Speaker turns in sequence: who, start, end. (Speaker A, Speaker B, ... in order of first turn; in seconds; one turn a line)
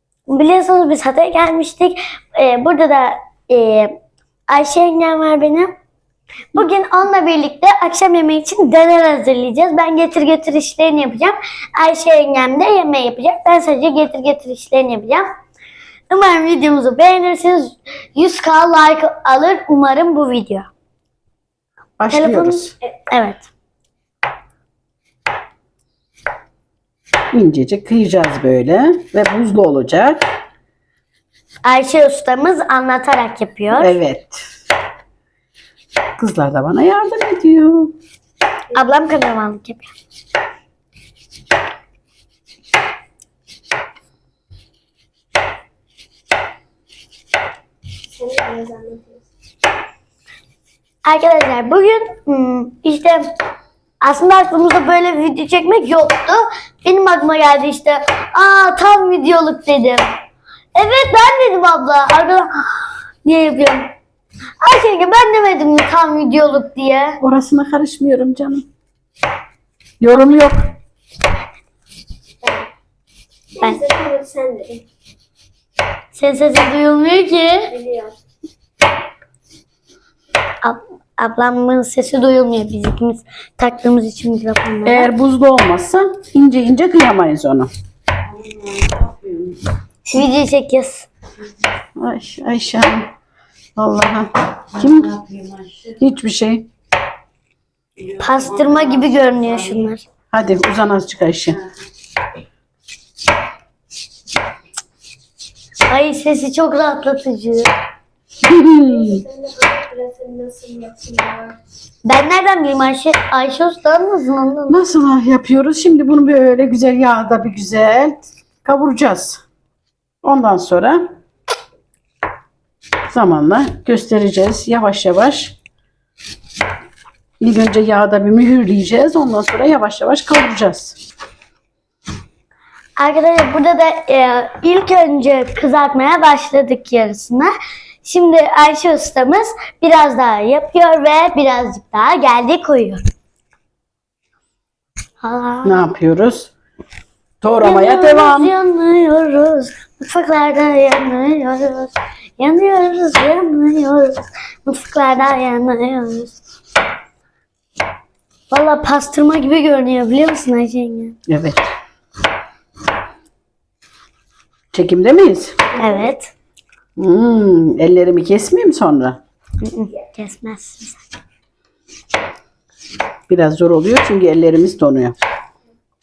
Speaker A: 0.3-4.0
Speaker A: 4.5-5.7
Speaker A: 6.5-15.3
Speaker A: 16.1-20.7
Speaker B: 22.0-22.8
Speaker A: 22.1-23.5
Speaker B: 27.3-30.2
Speaker A: 31.6-34.0
Speaker B: 33.8-34.5
Speaker B: 36.2-38.0
Speaker A: 38.7-39.9
Speaker C: 48.1-49.2
Speaker A: 51.0-53.2
Speaker A: 54.0-60.1
Speaker A: 60.8-63.9
Speaker A: 64.6-67.2
Speaker B: 67.2-68.7
Speaker B: 70.0-70.6
Speaker C: 72.4-72.7
Speaker C: 73.6-74.8
Speaker A: 76.1-77.7
Speaker C: 77.7-78.1
Speaker A: 80.6-85.1
Speaker B: 84.8-87.7
Speaker B: 88.8-89.2
Speaker A: 90.1-91.1
Speaker B: 92.0-93.1
Speaker B: 93.8-96.7
Speaker A: 98.1-100.0
Speaker B: 100.3-101.6
Speaker A: 105.9-107.7
Speaker B: 108.4-109.2
Speaker C: 108.9-111.6
Speaker A: 112.1-114.8
Speaker B: 114.7-119.4
Speaker B: 120.2-121.0
Speaker B: 123.1-125.6
Speaker B: 127.4-131.0
Speaker A: 133.0-137.5
Speaker A: 138.0-143.0
Speaker A: 145.2-145.8
Speaker B: 145.6-146.5
Speaker B: 147.4-148.5
Speaker A: 147.6-156.3
Speaker A: 158.5-161.2
Speaker B: 161.3-161.7
Speaker B: 164.7-165.6
Speaker A: 165.8-166.3
Speaker B: 167.0-169.2
Speaker A: 169.6-171.0
Speaker B: 173.3-175.2